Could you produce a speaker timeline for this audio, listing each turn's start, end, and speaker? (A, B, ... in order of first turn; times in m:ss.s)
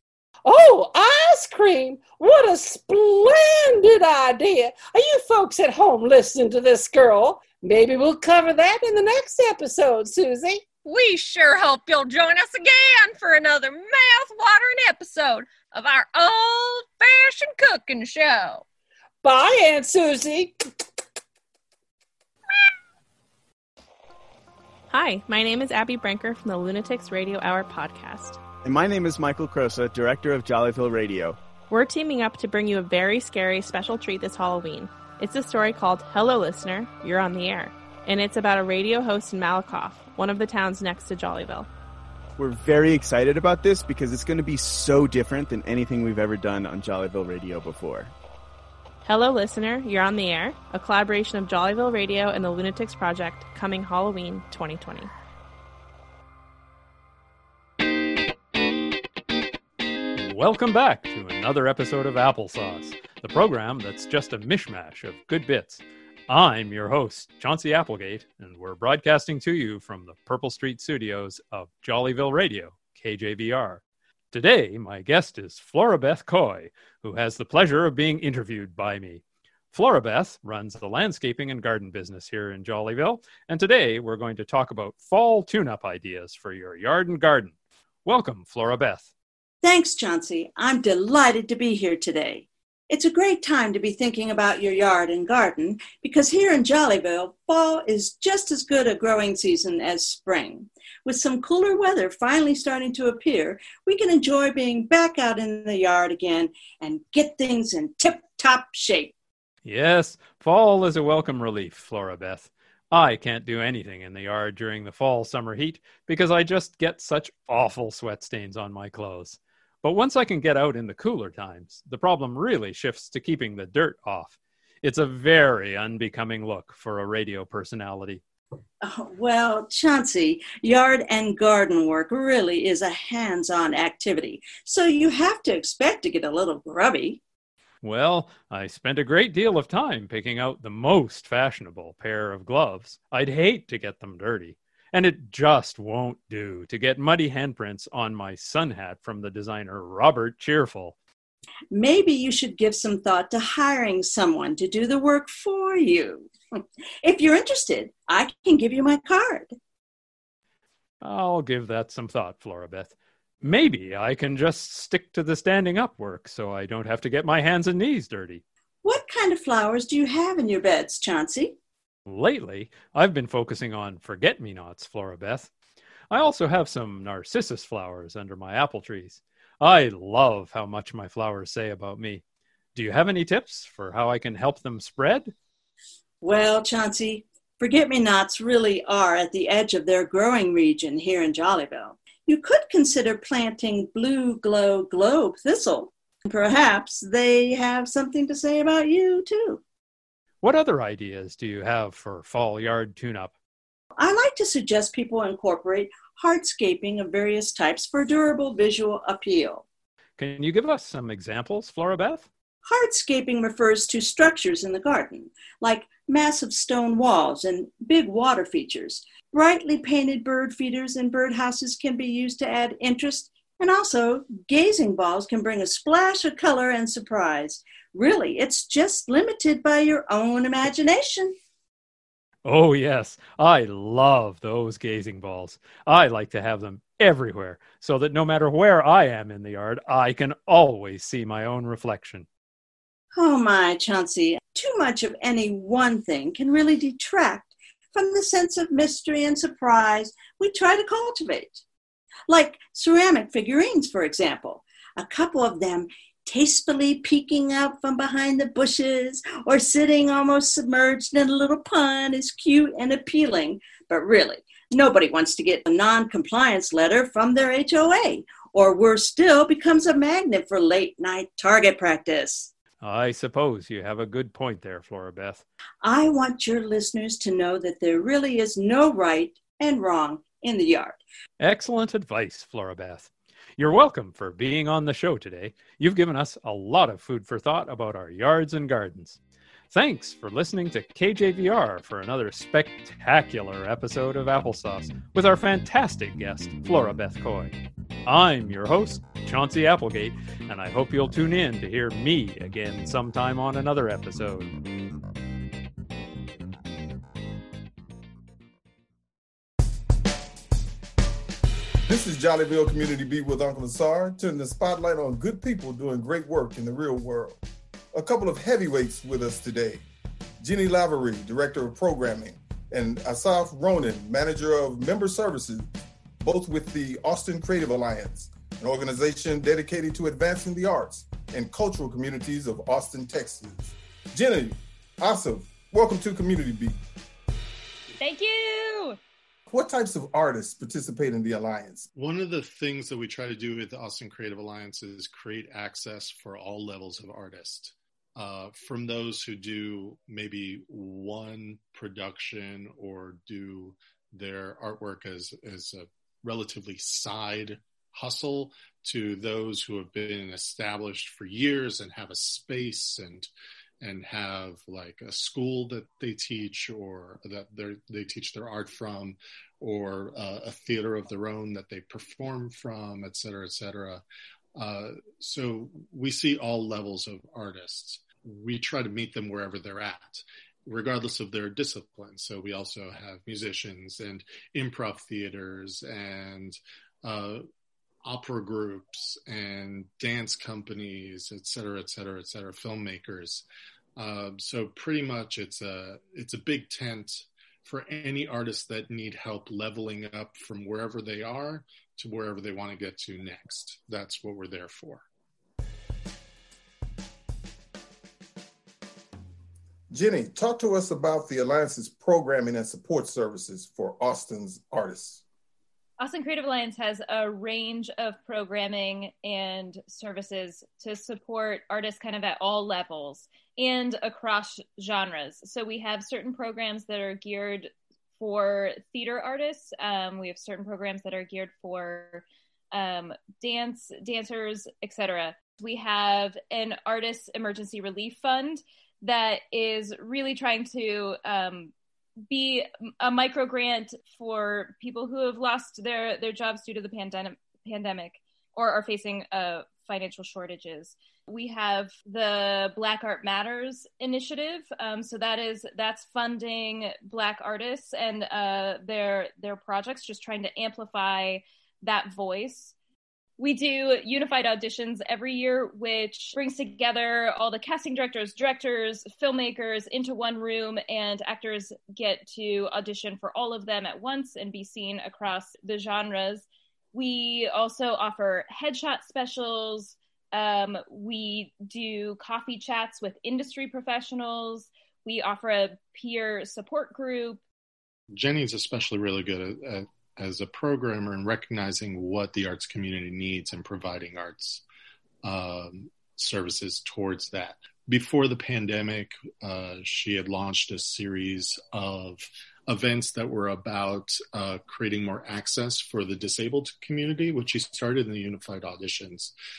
0:00.4-0:10.6 A
0:10.8-0:18.6 B
0:19.2-0:20.6 A
0:24.9-0:28.4 C
0:28.6-0:31.4 D
0:31.7-0:41.7 C
0:42.4-0:48.1 D
0:49.0-0:55.1 C
1:00.2-1:27.5 E
1:28.0-1:29.1 E
1:29.6-1:49.1 F
1:49.6-2:08.2 E
2:08.8-2:17.2 F
2:17.8-2:31.0 E
2:31.7-2:36.3 F
2:37.0-2:39.6 F
2:41.0-2:48.4 E
2:48.8-2:51.6 F
2:52.1-2:55.5 E
2:56.1-3:02.2 E
3:02.8-3:05.3 E
3:06.2-3:19.6 F
3:20.4-3:23.3 E
3:24.0-3:29.6 F
3:30.2-3:32.3 E
3:32.6-3:51.4 F
3:52.4-4:02.3 E
4:03.1-4:11.6 F
4:12.3-4:32.5 F
4:32.8-4:35.4 E
4:35.8-4:41.0 F
4:41.4-4:49.2 E
4:49.7-5:04.5 E
5:11.9-5:17.4 G
5:17.9-5:19.9 G
5:20.4-5:25.7 G
5:26.2-5:36.8 G
5:38.0-5:39.0 H
5:39.5-5:41.9 G
5:42.0-6:03.3 I
6:03.8-6:14.0 I
6:14.6-6:27.4 I
6:28.0-6:33.4 I
6:34.0-6:45.1 I
6:49.9-6:55.2 G
6:56.0-7:21.7 H
7:22.3-7:42.7 H
7:43.4-8:07.4 H
8:08.1-8:14.6 I
8:15.2-8:29.3 I